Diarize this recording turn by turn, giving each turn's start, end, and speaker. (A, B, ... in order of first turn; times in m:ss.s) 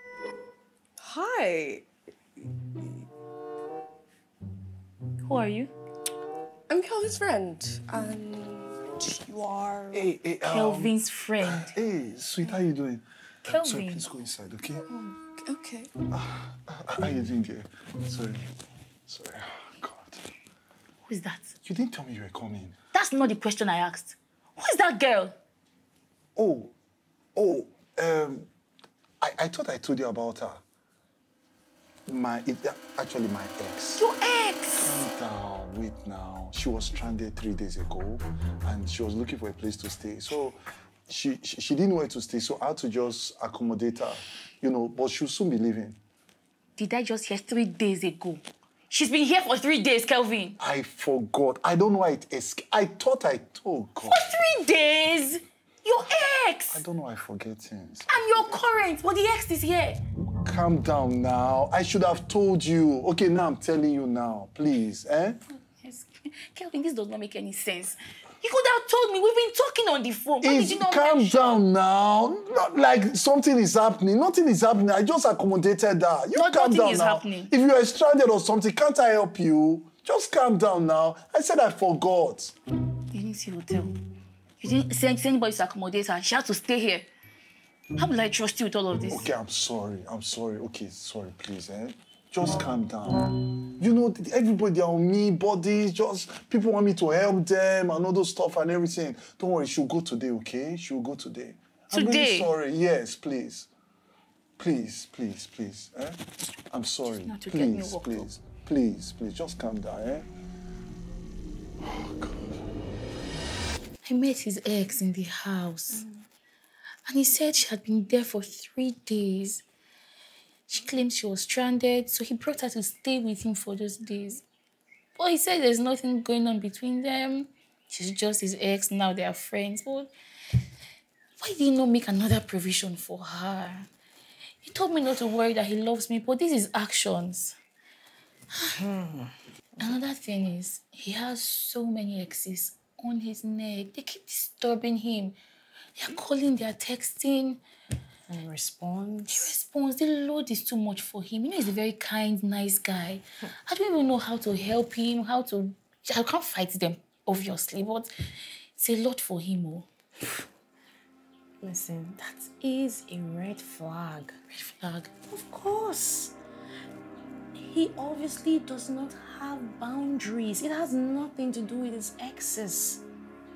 0:01.0-0:01.8 A
0:05.2-0:05.7 B
0:06.7-0:10.0 A
0:09.9-0:14.9 C
0:10.5-0:11.7 B
0:13.5-0:14.0 B
0:15.4-0:15.9 A
0:16.1-0:18.5 C
0:19.1-0:20.2 C
0:21.0-0:21.5 B
0:21.6-0:22.8 C
0:22.9-0:25.4 B
0:26.4-0:26.7 C
0:27.4-0:28.5 C
0:29.2-0:30.6 C
0:32.1-0:34.1 C
0:34.0-0:35.1 B
0:34.8-0:46.0 C
0:46.8-0:50.6 B
0:50.6-0:54.2 C
0:54.0-0:56.8 B
0:56.7-0:58.6 C
0:58.1-1:00.0 B
1:00.4-1:05.4 C
1:05.5-1:11.6 B
1:10.4-1:22.6 C
1:16.4-1:17.5 B
1:23.1-1:23.9 B
1:24.6-1:27.1 B
1:28.0-1:29.3 B
1:29.1-1:43.7 C
1:41.9-1:42.5 B
1:44.6-1:50.3 C
1:47.1-1:48.3 B
1:51.8-1:52.6 C
1:54.0-1:56.0 B
1:57.1-1:59.6 B
2:00.7-2:04.4 B
2:05.2-2:10.1 B
2:11.4-2:13.9 B
2:14.6-2:17.6 B
2:19.8-2:25.4 B
2:26.0-2:27.6 B
2:28.3-2:29.6 D
2:29.3-2:38.1 B
2:38.8-2:39.9 B
2:41.6-2:44.4 D
2:44.5-2:45.1 B
2:45.3-2:46.4 D
2:47.6-2:53.0 D